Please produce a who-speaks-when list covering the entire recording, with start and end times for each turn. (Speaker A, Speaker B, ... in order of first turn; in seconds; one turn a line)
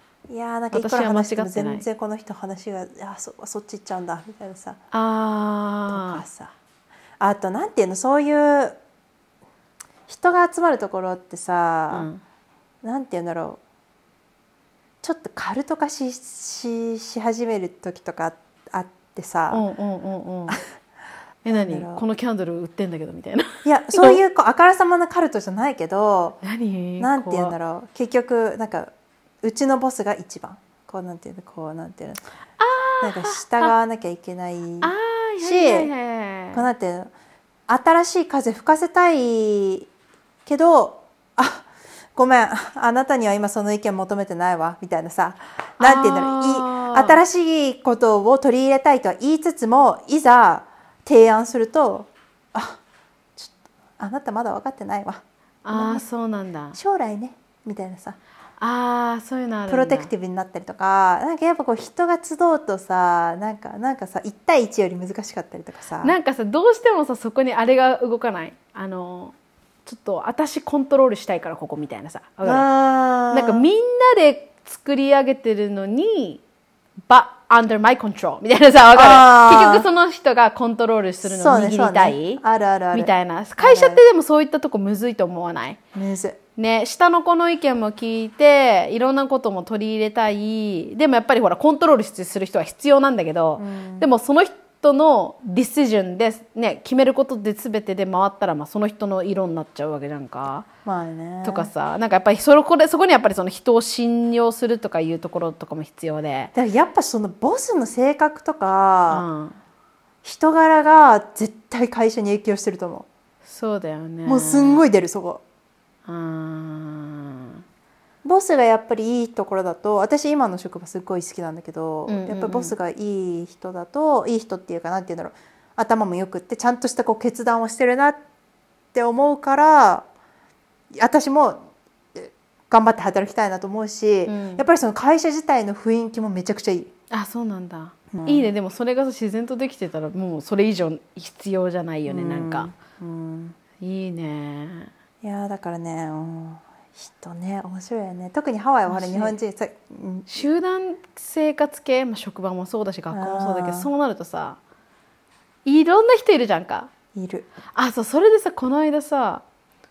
Speaker A: 0.3-4.8
Speaker B: 0.7-1.9
Speaker B: 4.9-6.2
Speaker A: 5.9-6.5
Speaker A: 7.2-8.8
Speaker A: 10.1-12.1
Speaker B: 11.9-12.2
Speaker A: 12.8-13.6
Speaker A: 15.0-19.6
Speaker B: 19.5-20.6
Speaker B: 21.4-24.2
Speaker A: 21.5-22.0
Speaker A: 23.6-26.4
Speaker B: 26.4-27.6
Speaker A: 27.0-28.9
Speaker A: 29.4-32.2
Speaker B: 32.6-33.8
Speaker A: 33.0-35.9
Speaker B: 34.8-36.6
Speaker A: 36.5-37.1
Speaker A: 37.7-39.9
Speaker A: 40.5-52.8
Speaker B: 45.8-47.2
Speaker A: 53.4-56.0
Speaker B: 55.6-56.8
Speaker A: 56.7-58.2
Speaker B: 58.6-60.1
Speaker A: 59.7-66.2
Speaker B: 66.0-69.3
Speaker B: 69.9-72.7
Speaker A: 72.4-73.6
Speaker B: 73.3-76.4
Speaker B: 77.1-82.4
Speaker A: 79.0-79.9
Speaker A: 81.2-84.0
Speaker B: 82.9-85.8
Speaker A: 86.0-86.4
Speaker B: 86.6-100.7
Speaker A: 93.6-94.1
Speaker A: 100.8-101.7
Speaker B: 101.4-106.5
Speaker A: 106.5-109.2
Speaker B: 109.1-109.6
Speaker A: 110.2-113.1
Speaker B: 113.5-114.8
Speaker A: 114.2-115.4
Speaker B: 116.1-117.6
Speaker A: 118.2-128.2
Speaker B: 122.1-122.7
Speaker A: 128.9-130.1
Speaker A: 130.9-131.6
Speaker A: 132.2-136.9
Speaker B: 134.3-134.7
Speaker B: 137.1-142.8
Speaker A: 138.1-138.5
Speaker A: 142.1-143.6
Speaker B: 143.8-144.9
Speaker A: 145.2-150.4
Speaker B: 148.9-149.4
Speaker B: 150.3-154.6
Speaker A: 153.1-153.9
Speaker B: 155.7-156.9
Speaker A: 157.2-157.5
Speaker B: 157.8-159.4